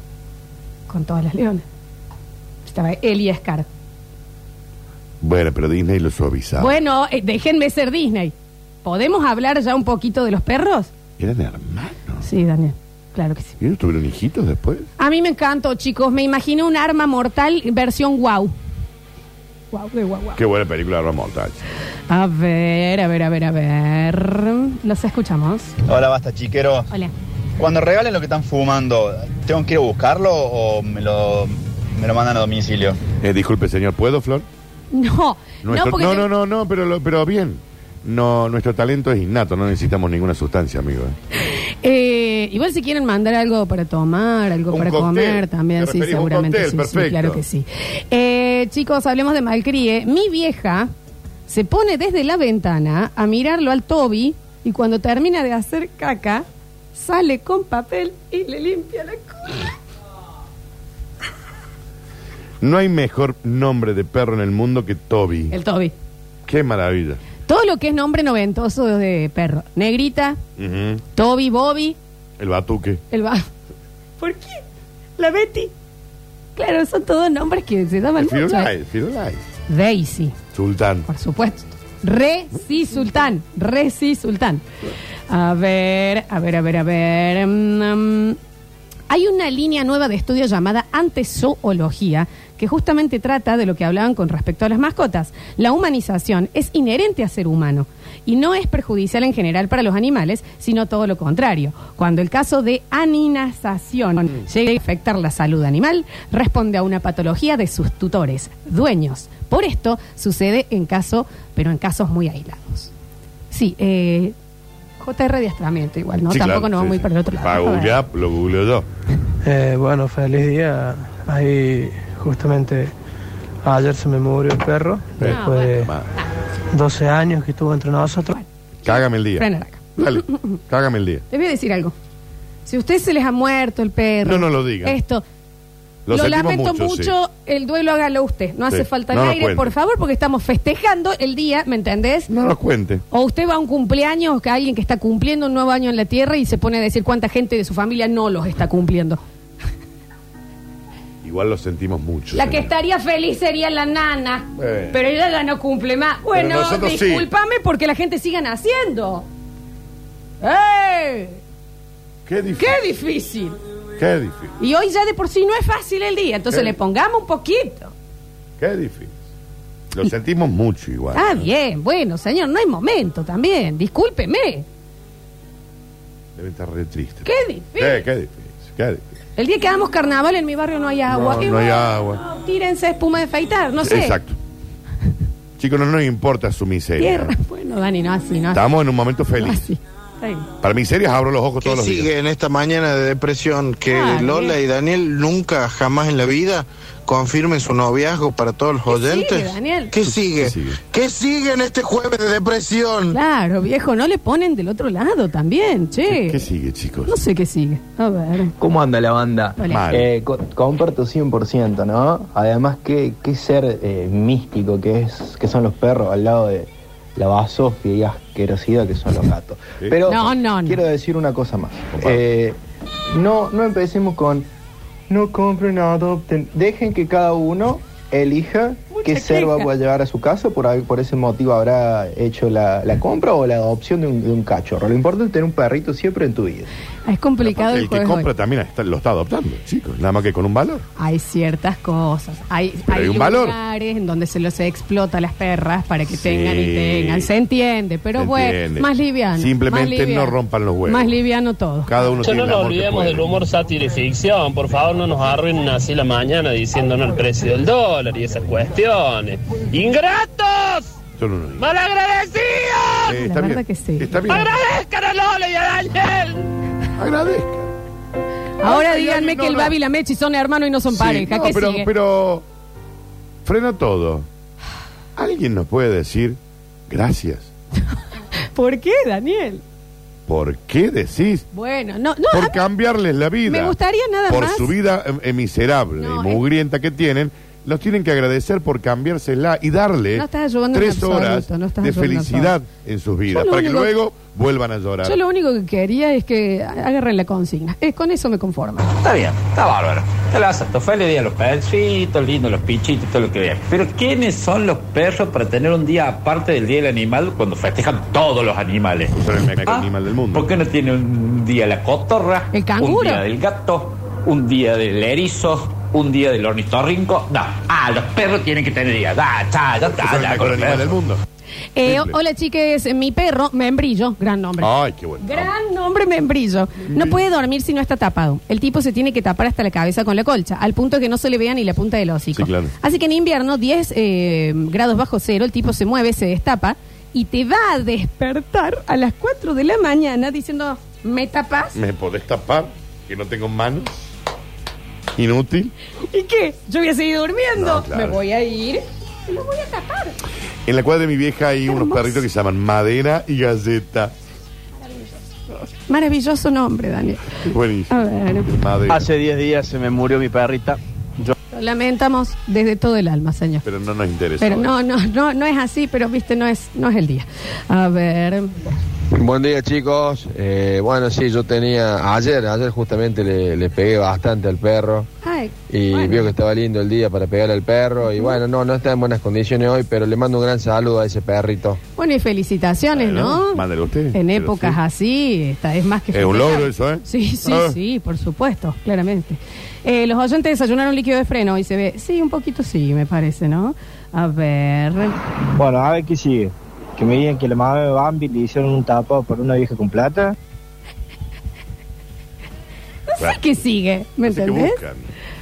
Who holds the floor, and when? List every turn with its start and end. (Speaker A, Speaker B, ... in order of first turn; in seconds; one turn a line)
Speaker A: 0.9-1.6
Speaker A: 2.6-3.6
Speaker B: 5.2-6.8
Speaker A: 6.6-10.9
Speaker B: 11.2-12.2
Speaker A: 12.2-13.5
Speaker B: 13.6-14.9
Speaker A: 15.0-18.5
Speaker A: 19.7-20.4
Speaker B: 20.4-21.6
Speaker A: 22.1-25.7
Speaker C: 25.9-26.9
Speaker C: 27.6-33.0
Speaker B: 33.2-34.5
Speaker A: 34.9-36.3
Speaker B: 35.6-41.2
Speaker A: 41.8-50.9
Speaker B: 44.7-47.4
Speaker A: 51.5-59.6
Speaker B: 62.6-65.5
Speaker A: 65.5-65.9
Speaker B: 66.5-67.2
Speaker A: 67.5-70.4
Speaker B: 70.6-71.0
Speaker A: 71.1-72.0
Speaker B: 72.4-73.0
Speaker A: 73.1-73.5
Speaker A: 74.2-74.6
Speaker A: 75.2-75.7
Speaker A: 76.5-78.7
Speaker B: 78.2-79.4
Speaker A: 79.7-80.3
Speaker B: 80.5-81.1
Speaker A: 81.1-84.6
Speaker A: 85.3-88.4
Speaker A: 89.1-112.9
Speaker A: 113.5-114.3
Speaker A: 115.0-118.0
Speaker B: 116.3-118.9
Speaker D: 119.4-122.9
Speaker D: 123.6-125.9
Speaker B: 125.2-126.1
Speaker A: 125.2-125.8
Speaker D: 126.7-128.3
Speaker A: 128.3-130.6
Speaker B: 128.8-131.2
Speaker A: 131.3-131.9
Speaker A: 132.7-135.2
Speaker B: 134.2-134.9
Speaker B: 136.1-137.1
Speaker A: 136.1-142.3
Speaker B: 138.7-139.7
Speaker B: 142.3-143.0
Speaker A: 143.1-149.2
Speaker B: 151.2-152.7
Speaker A: 152.3-159.2
Speaker B: 154.6-155.0
Speaker B: 156.3-157.3
Speaker A: 160.4-161.4
Speaker B: 162.2-162.8
Speaker A: 162.6-163.6
Speaker B: 164.0-164.5
Speaker A: 164.6-167.9
Speaker B: 166.5-166.8
Speaker B: 168.6-169.1
Speaker B: 169.9-171.5
Speaker A: 171.1-174.7
Speaker B: 176.3-179.0
Speaker A: 177.2-178.0
Speaker A: 179.4-184.2
Speaker B: 181.1-182.2
Speaker B: 183.8-184.4
Speaker B: 185.6-187.3
Speaker A: 187.0-188.6
Speaker B: 188.5-189.7
Speaker A: 189.4-190.5
Speaker B: 190.6-192.1
Speaker E: 191.6-203.2
Speaker A: 193.9-194.6
Speaker A: 198.9-199.9
Speaker B: 200.1-200.8
Speaker A: 203.1-206.4
Speaker B: 206.1-207.2
Speaker A: 207.1-208.5
Speaker F: 208.6-209.2
Speaker A: 209.6-209.9
Speaker B: 209.6-210.1
Speaker F: 209.9-222.6
Speaker A: 220.1-220.8
Speaker B: 221.9-222.2
Speaker F: 223.1-224.5
Speaker F: 225.1-236.7
Speaker A: 228.9-229.7
Speaker A: 237.1-238.3
Speaker B: 237.4-240.8
Speaker A: 241.0-252.2
Speaker B: 242.9-243.6
Speaker B: 246.1-247.3
Speaker B: 248.1-251.2
Speaker B: 251.9-253.3
Speaker G: 252.2-260.9
Speaker B: 261.2-261.7
Speaker G: 261.6-263.1
Speaker B: 263.0-264.5
Speaker A: 263.1-264.3
Speaker G: 264.3-266.5
Speaker B: 267.0-267.7
Speaker A: 268.6-271.9
Speaker B: 268.6-269.7
Speaker B: 270.9-272.4
Speaker B: 273.4-274.3
Speaker B: 275.1-277.5
Speaker A: 278.5-279.6
Speaker B: 280.3-281.4
Speaker A: 281.5-282.6
Speaker B: 282.3-283.7
Speaker A: 283.4-284.7
Speaker B: 284.3-295.2
Speaker A: 286.0-286.4
Speaker A: 290.1-292.5
Speaker A: 293.3-293.9
Speaker A: 295.0-298.9
Speaker H: 299.0-320.9
Speaker B: 309.1-310.5
Speaker A: 312.5-313.2
Speaker B: 319.9-321.2
Speaker A: 321.7-341.8
Speaker B: 321.8-322.2
Speaker B: 324.6-325.5
Speaker B: 326.9-327.2
Speaker B: 332.3-332.7
Speaker B: 341.7-343.9
Speaker B: 345.1-345.7
Speaker A: 346.1-350.2
Speaker B: 347.6-348.2
Speaker B: 350.6-354.1
Speaker A: 351.6-352.2
Speaker A: 355.6-357.2
Speaker B: 357.4-359.1
Speaker A: 357.9-358.5
Speaker I: 359.0-360.7
Speaker A: 361.5-363.6
Speaker B: 363.6-364.7
Speaker A: 364.4-368.5
Speaker J: 369.1-375.1
Speaker A: 375.2-376.3
Speaker J: 375.7-381.8
Speaker A: 378.0-378.4
Speaker A: 382.0-395.2
Speaker B: 382.9-384.8
Speaker B: 386.1-387.8
Speaker I: 395.5-400.3
Speaker A: 403.1-404.8
Speaker B: 404.2-405.1